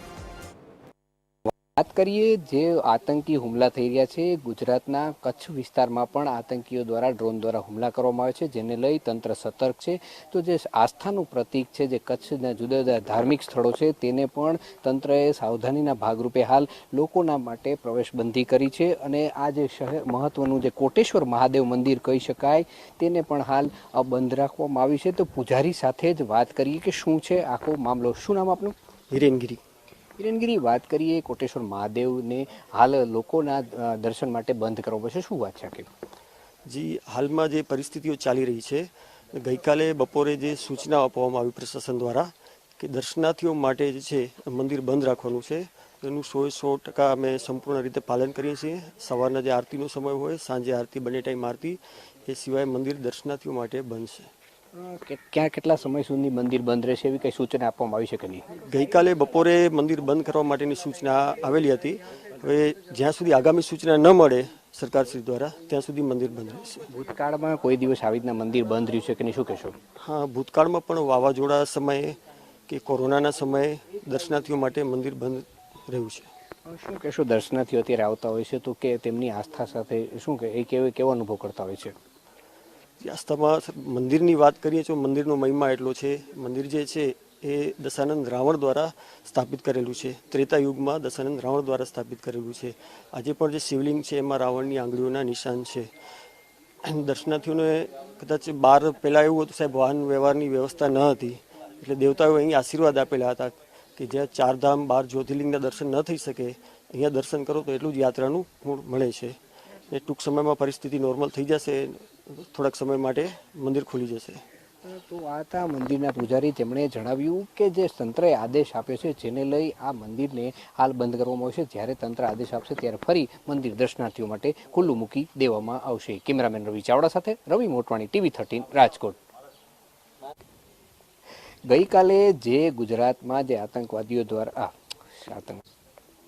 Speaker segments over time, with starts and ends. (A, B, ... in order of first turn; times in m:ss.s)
0:01.8-0:28.7 A
0:29.1-0:29.6 B
0:30.2-0:35.9 A
0:36.7-0:54.3 B
0:54.7-0:58.4 A
0:58.6-1:06.9 B
1:06.9-1:09.8 A
1:10.0-1:16.3 B
1:16.6-1:21.9 A
1:23.0-1:35.9 B
1:36.8-1:49.4 B
1:49.9-1:54.4 B
1:54.8-2:09.2 A
2:11.7-2:15.6 A